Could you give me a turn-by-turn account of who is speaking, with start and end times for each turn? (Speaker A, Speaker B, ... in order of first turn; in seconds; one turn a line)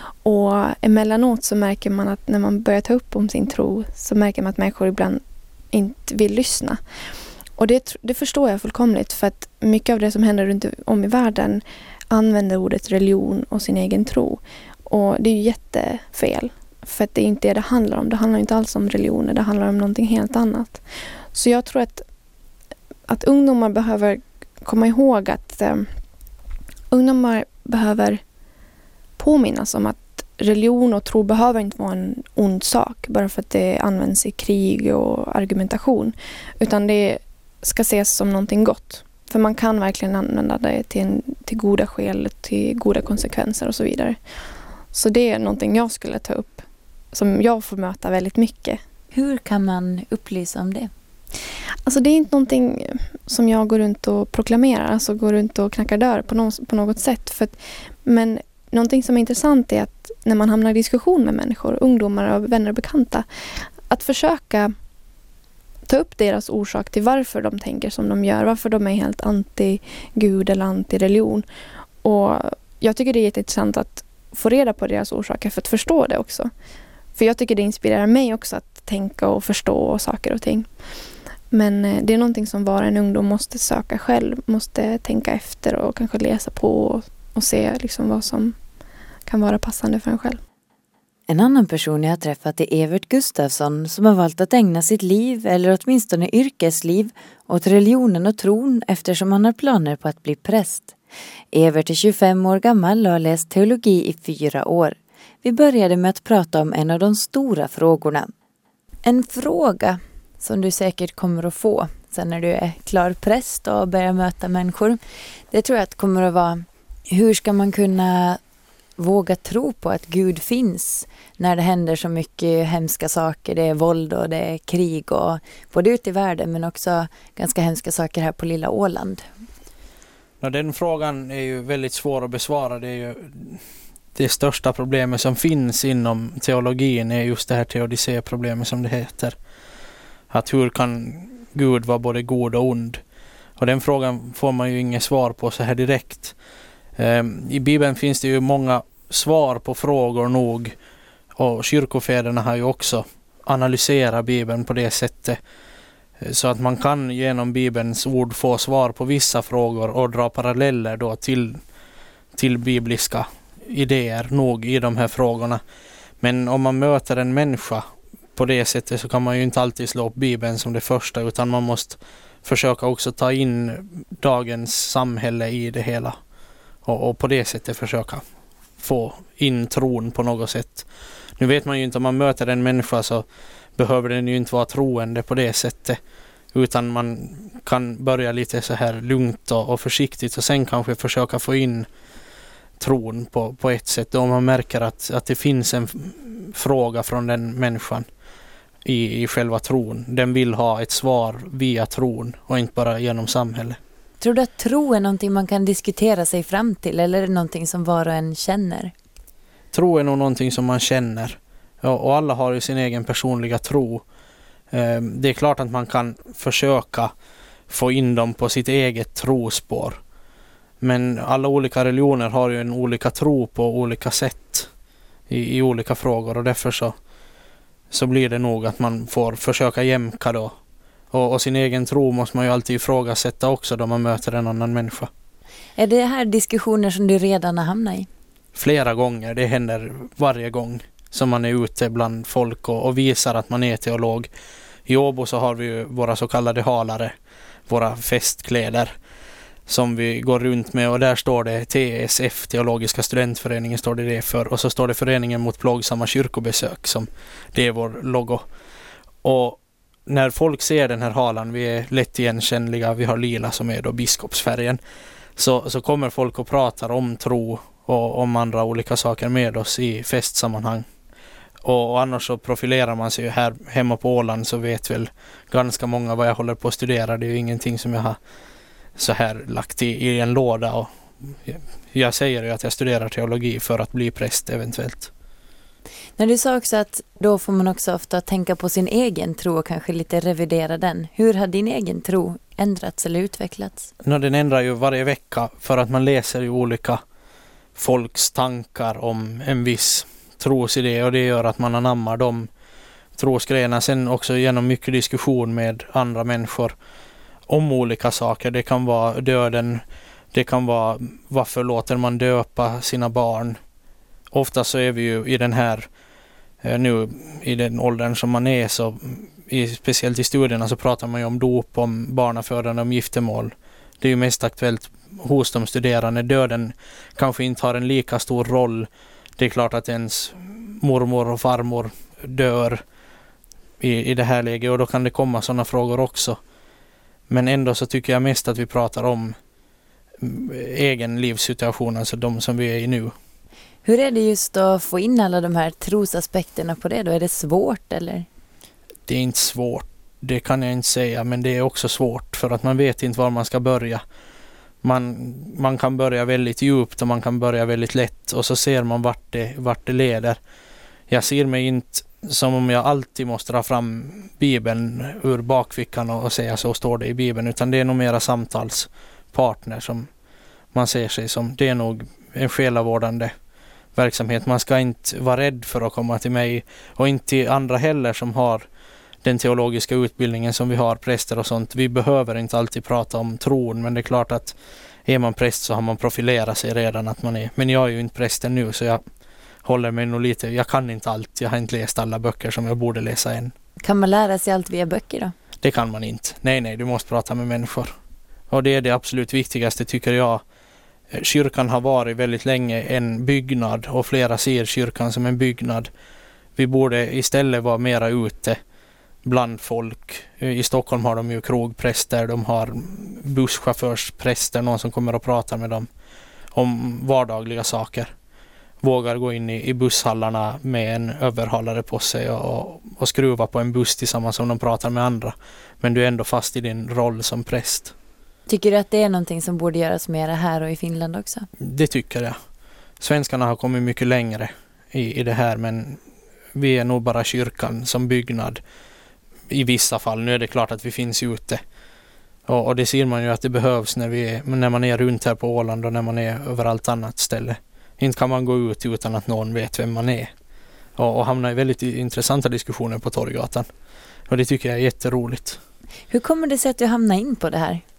Speaker A: 0.2-6.8
Speaker A: 7.6-22.1
Speaker A: 23.1-25.9
Speaker A: 26.9-28.2
Speaker A: 29.2-44.2
Speaker A: 44.9-48.8
Speaker B: 49.1-50.9
Speaker A: 51.9-64.7
Speaker A: 65.9-71.5
Speaker A: 72.0-76.5
Speaker A: 77.2-80.7
Speaker A: 81.5-88.6
Speaker A: 89.3-90.4
Speaker B: 91.3-100.9
Speaker B: 101.5-108.3
Speaker B: 109.0-115.0
Speaker B: 115.5-118.4
Speaker B: 119.0-129.2
Speaker C: 130.4-133.6
Speaker C: 134.2-139.4
Speaker C: 140.3-143.0
Speaker C: 143.6-146.3
Speaker C: 147.0-150.8
Speaker C: 151.4-155.4
Speaker C: 156.2-161.6
Speaker C: 162.3-165.6
Speaker C: 166.2-167.8
Speaker C: 168.4-176.2
Speaker C: 176.8-178.2
Speaker C: 178.8-180.9
Speaker C: 181.4-183.2
Speaker C: 183.8-186.0
Speaker C: 186.5-191.9
Speaker C: 192.8-198.1
Speaker C: 198.8-203.8
Speaker B: 204.2-208.9
Speaker C: 209.7-214.0
Speaker C: 214.7-217.1
Speaker C: 217.7-220.0
Speaker C: 220.8-224.7
Speaker C: 225.3-226.9
Speaker C: 227.9-230.6
Speaker C: 231.1-235.1
Speaker B: 235.8-238.1
Speaker C: 238.6-244.3
Speaker C: 244.9-247.1
Speaker C: 247.7-248.9
Speaker C: 249.7-258.4
Speaker C: 259.2-264.8
Speaker C: 265.4-270.9
Speaker C: 271.6-278.2
Speaker C: 279.0-285.1
Speaker B: 286.2-293.9
Speaker C: 294.0-297.0
Speaker C: 297.8-302.5
Speaker C: 303.2-306.8
Speaker C: 307.5-313.6
Speaker C: 314.3-315.9
Speaker C: 316.6-332.8
Speaker C: 333.8-336.4
Speaker C: 337.3-339.4
Speaker C: 340.2-343.1
Speaker B: 343.9-348.3
Speaker C: 349.1-354.0
Speaker C: 354.8-360.4
Speaker C: 361.1-370.1
Speaker C: 370.7-373.3
Speaker C: 373.9-378.7
Speaker C: 379.2-384.6
Speaker C: 385.1-389.0
Speaker C: 389.6-393.5
Speaker B: 393.8-395.3
Speaker C: 395.6-397.9
Speaker C: 398.5-400.4
Speaker C: 401.1-405.9
Speaker C: 406.6-408.6
Speaker C: 409.2-415.9
Speaker C: 416.5-418.1
Speaker C: 418.8-427.9
Speaker B: 428.5-431.5
Speaker C: 431.6-432.4
Speaker C: 433.0-436.0
Speaker C: 436.6-438.6
Speaker C: 439.5-441.6
Speaker C: 442.5-450.3
Speaker C: 451.0-453.7
Speaker C: 454.3-455.6
Speaker B: 456.1-457.8